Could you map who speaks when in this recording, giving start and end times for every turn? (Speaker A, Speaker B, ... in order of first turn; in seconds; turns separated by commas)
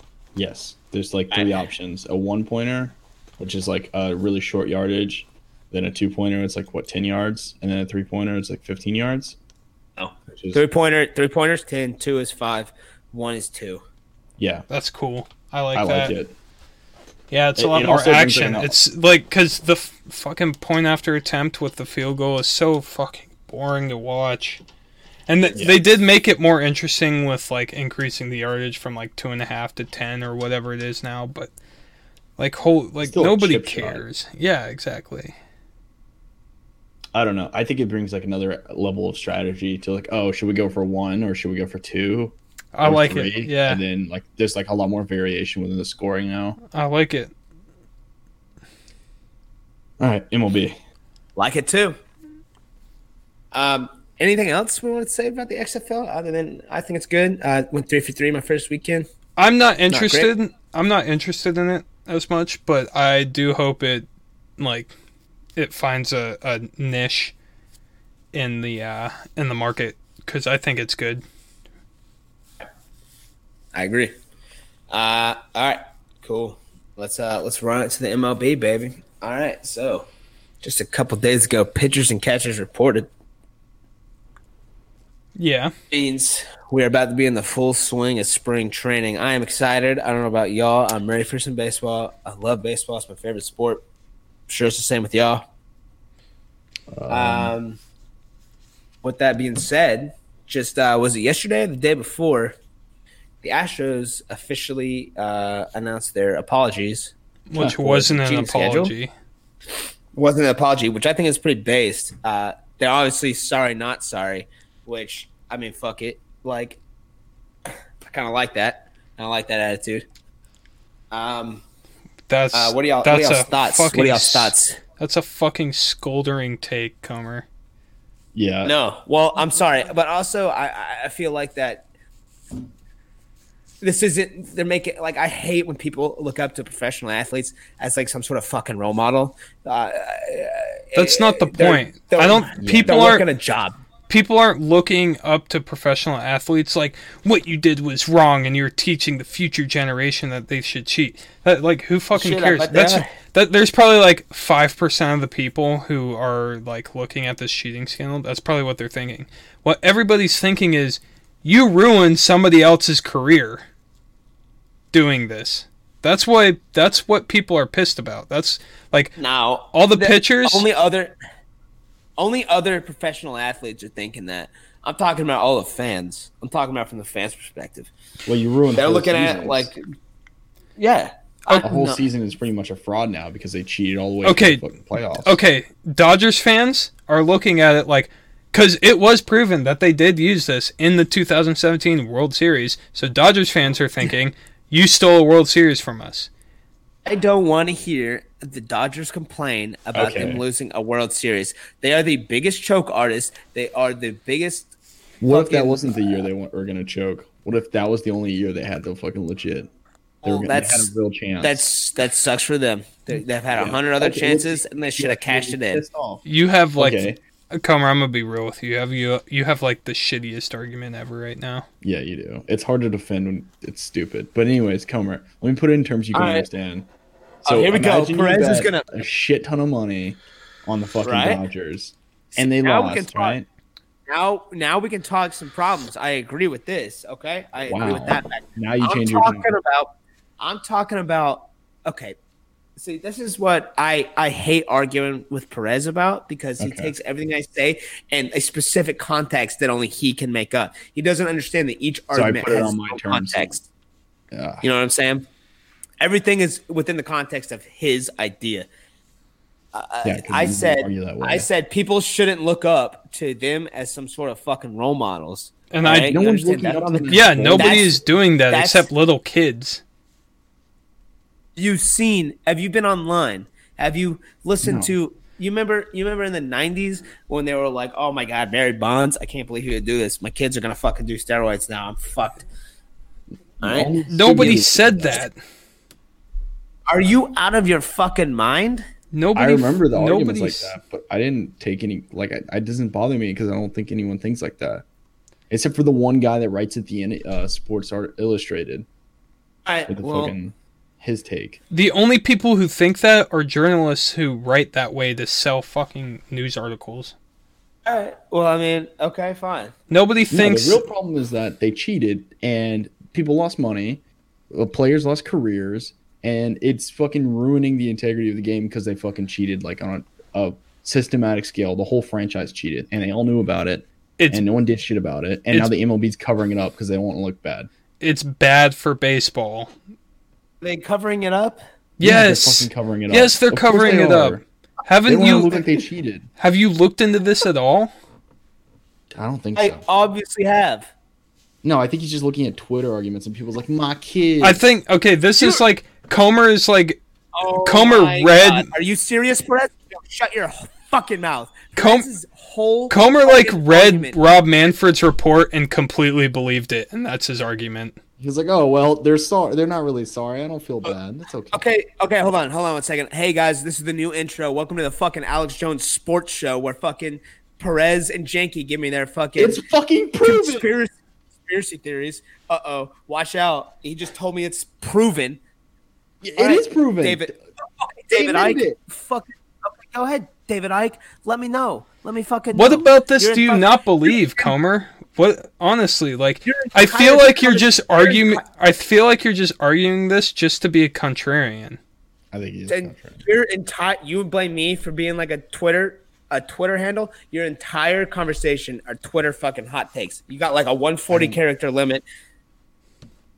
Speaker A: 0.3-9.4, Speaker B: 1.3-1.6, Speaker B: 10.0-13.8, Speaker A: 10.3-10.6, Speaker A: 14.4-14.6, Speaker C: 14.7-16.1, Speaker A: 15.7-16.3, Speaker C: 17.3-24.6, Speaker A: 17.6-18.7, Speaker C: 25.3-31.5, Speaker A: 25.5-25.8, Speaker C: 32.4-35.3, Speaker A: 33.0-34.0, Speaker A: 37.1-46.6, Speaker C: 42.7-43.8, Speaker C: 46.7-47.3, Speaker A: 50.0-50.8, Speaker B: 51.4-52.0, Speaker B: 53.5-59.1, Speaker C: 59.4-64.0, Speaker B: 59.9-60.3, Speaker C: 64.6-64.9, Speaker C: 65.5-67.3, Speaker C: 68.3-71.2, Speaker B: 73.7-74.1, Speaker B: 74.9-80.1, Speaker B: 80.6-83.1, Speaker C: 85.3-85.7, Speaker B: 85.9-93.8, Speaker B: 94.5-95.4, Speaker A: 96.9-97.5, Speaker B: 97.1-97.8, Speaker B: 99.0-102.5, Speaker B: 103.4-108.9, Speaker C: 107.5-109.1, Speaker A: 107.6-108.0, Speaker B: 110.1-116.8, Speaker B: 118.0-120.0, Speaker B: 121.1-121.6, Speaker C: 122.3-127.5, Speaker B: 122.5-124.8, Speaker A: 128.3-128.7, Speaker B: 128.6-131.9, Speaker B: 133.8-143.8, Speaker C: 140.9-143.2, Speaker A: 142.6-143.0, Speaker C: 144.1-163.6, Speaker B: 152.1-153.1, Speaker C: 164.9-169.2, Speaker B: 169.2-171.1, Speaker C: 169.7-170.7, Speaker B: 172.2-177.9, Speaker A: 178.2-179.7, Speaker B: 178.7-179.8, Speaker B: 180.8-182.0, Speaker A: 181.6-185.4, Speaker C: 184.2-184.6, Speaker C: 185.2-196.3, Speaker B: 197.1-204.7, Speaker A: 199.9-200.4, Speaker A: 205.2-209.7, Speaker B: 205.3-206.2, Speaker B: 210.2-210.9, Speaker A: 210.2-211.6, Speaker B: 211.4-215.8, Speaker A: 213.5-216.2, Speaker C: 216.2-221.7, Speaker A: 216.8-217.2, Speaker A: 221.8-226.9, Speaker B: 226.1-226.5, Speaker A: 227.4-233.5, Speaker B: 227.4-228.9, Speaker B: 231.0-231.4, Speaker B: 232.3-233.4, Speaker B: 234.1-242.2, Speaker A: 237.7-239.5, Speaker B: 242.8-253.7, Speaker A: 246.6-246.9, Speaker A: 252.1-253.6, Speaker A: 254.3-254.6, Speaker B: 254.6-255.3, Speaker B: 256.0-258.7, Speaker B: 259.7-268.0, Speaker A: 260.0-261.5, Speaker C: 265.7-266.1, Speaker A: 265.9-268.0, Speaker C: 267.1-269.8, Speaker B: 268.5-268.9, Speaker B: 271.6-282.4, Speaker A: 274.6-274.9, Speaker A: 283.6-285.2, Speaker B: 283.6-283.9, Speaker C: 284.1-285.4, Speaker B: 286.9-288.8, Speaker C: 289.1-290.7, Speaker A: 289.3-294.8, Speaker A: 295.5-298.9, Speaker B: 299.6-300.3, Speaker A: 299.9-301.6, Speaker C: 301.7-307.1, Speaker B: 307.8-309.7, Speaker C: 309.9-310.8, Speaker A: 310.3-327.7, Speaker C: 328.0-329.7, Speaker B: 330.6-331.6, Speaker C: 332.0-335.6, Speaker A: 332.0-334.4, Speaker A: 335.1-336.3, Speaker C: 336.4-337.9, Speaker A: 339.1-339.8, Speaker B: 339.6-340.9, Speaker A: 341.6-344.6, Speaker C: 344.4-347.0, Speaker B: 347.3-354.7, Speaker C: 347.6-348.7, Speaker C: 351.8-352.1, Speaker C: 352.9-358.0, Speaker A: 358.2-361.6, Speaker B: 361.5-369.6, Speaker A: 369.4-370.6, Speaker B: 370.2-370.9, Speaker B: 371.4-375.4, Speaker A: 376.2-377.4, Speaker B: 376.4-384.5, Speaker A: 378.1-378.8, Speaker C: 382.5-391.8, Speaker B: 386.4-388.4, Speaker A: 392.3-393.2, Speaker B: 392.7-402.0, Speaker A: 401.1-401.4